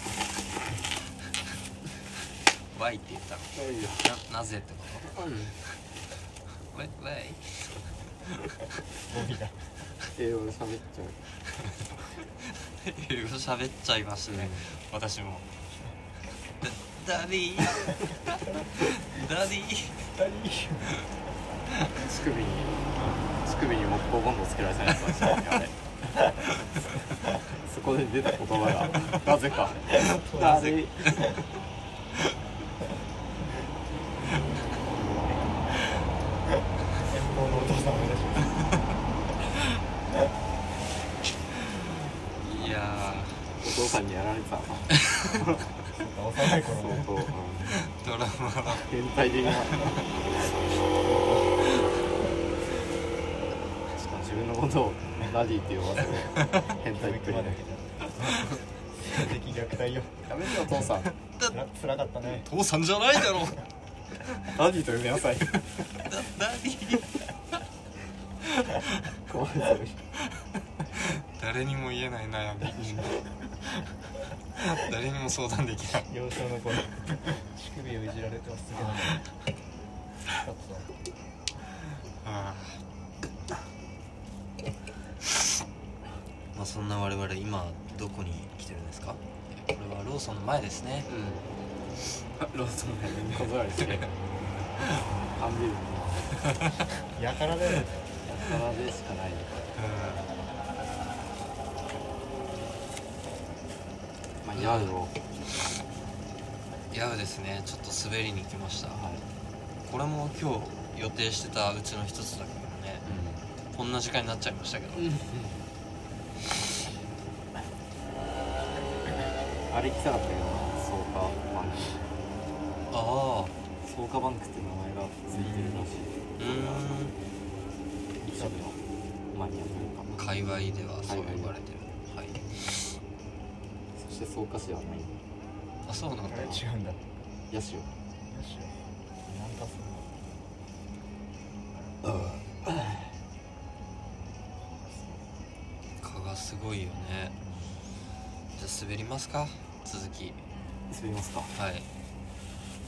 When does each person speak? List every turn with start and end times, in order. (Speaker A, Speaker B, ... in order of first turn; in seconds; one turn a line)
Speaker A: 2.7-5.1
Speaker B: 3.5-4.1
Speaker B: 5.1-5.5
Speaker A: 6.7-7.8
Speaker C: 9.1-9.6
Speaker B: 10.1-11.2
Speaker A: 12.5-15.4
Speaker B: 14.2-14.7
Speaker A: 16.6-20.1
Speaker C: 20.1-21.1
Speaker B: 21.9-25.9
Speaker B: 27.4-31.5
Speaker C: 29.9-31.4
Speaker C: 36.5-38.7
Speaker A: 42.4-43.6
Speaker B: 43.6-45.9
Speaker A: 45.0-45.3
Speaker C: 45.9-47.0
Speaker B: 46.5-47.7
Speaker A: 47.6-48.9
Speaker B: 48.7-50.6
Speaker C: 51.0-51.8
Speaker B: 53.9-57.6
Speaker A: 56.4-56.7
Speaker C: 56.9-60.3
Speaker B: 60.2-61.1
Speaker A: 61.0-61.6
Speaker C: 61.5-62.5
Speaker A: 62.2-63.6
Speaker B: 64.4-66.1
Speaker A: 66.0-67.2
Speaker B: 69.2-70.0
Speaker A: 71.0-73.2
Speaker B: 72.8-73.1
Speaker A: 74.5-76.1
Speaker C: 76.1-79.2
Speaker C: 80.4-80.9
Speaker A: 82.2-82.8
Speaker A: 86.5-91.1
Speaker B: 91.1-91.5
Speaker B: 92.3-94.1
Speaker B: 95.3-96.5
Speaker C: 97.1-98.1
Speaker B: 98.2-99.7
Speaker A: 99.7-100.3
Speaker B: 104.4-105.2
Speaker A: 104.5-104.9
Speaker A: 106.9-109.0
Speaker B: 108.9-109.2
Speaker A: 109.8-113.1
Speaker B: 113.0-113.5
Speaker A: 113.7-115.1
Speaker B: 115.0-115.6
Speaker B: 119.7-122.0
Speaker A: 122.9-123.5
Speaker B: 123.8-127.1
Speaker A: 126.4-127.1
Speaker B: 128.2-128.8
Speaker B: 129.3-130.2
Speaker A: 130.1-132.9
Speaker B: 131.0-131.5
Speaker B: 133.9-135.2
Speaker A: 135.8-136.6
Speaker C: 136.2-137.0
Speaker B: 137.5-137.9
Speaker C: 138.3-140.1
Speaker B: 142.0-143.1
Speaker A: 146.0-147.3
Speaker C: 147.5-147.7
Speaker A: 148.6-150.4
Speaker B: 150.9-151.5
Speaker A: 151.5-151.9